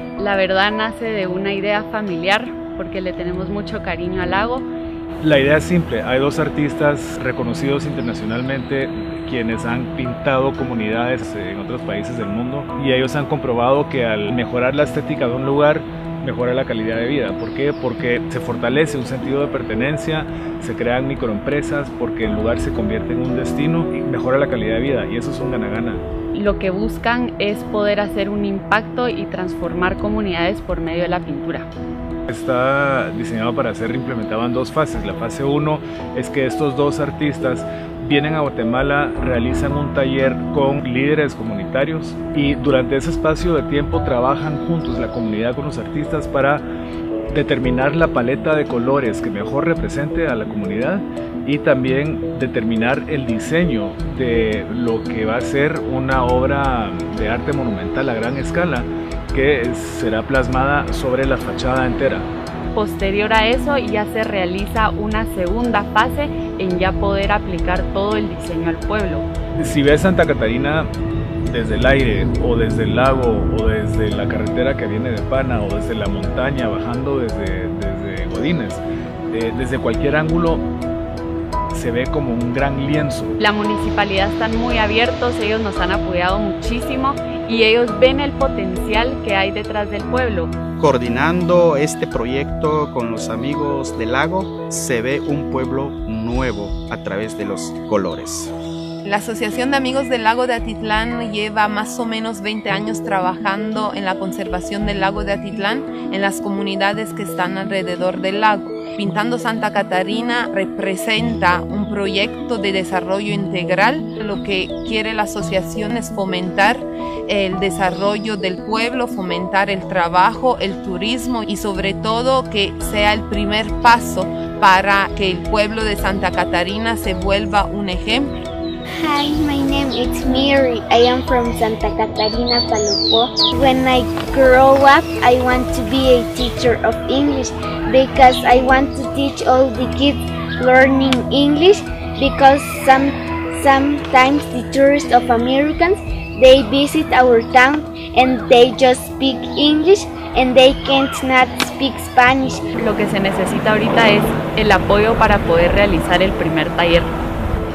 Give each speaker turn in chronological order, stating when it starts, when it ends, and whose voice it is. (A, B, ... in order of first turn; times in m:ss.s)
0:00.2-0:04.6 A
0:05.2-0:26.0 B
0:26.3-0:31.7 A
0:32.3-0:46.6 B
0:47.3-1:02.3 B
1:02.7-1:09.3 A
1:09.6-1:10.9 B
1:11.5-1:20.6 B
1:21.7-1:23.3 B
1:23.4-1:30.5 A
1:30.8-1:38.5 C
1:39.0-2:08.3 D
2:09.0-2:32.6 E
2:32.8-2:37.1 A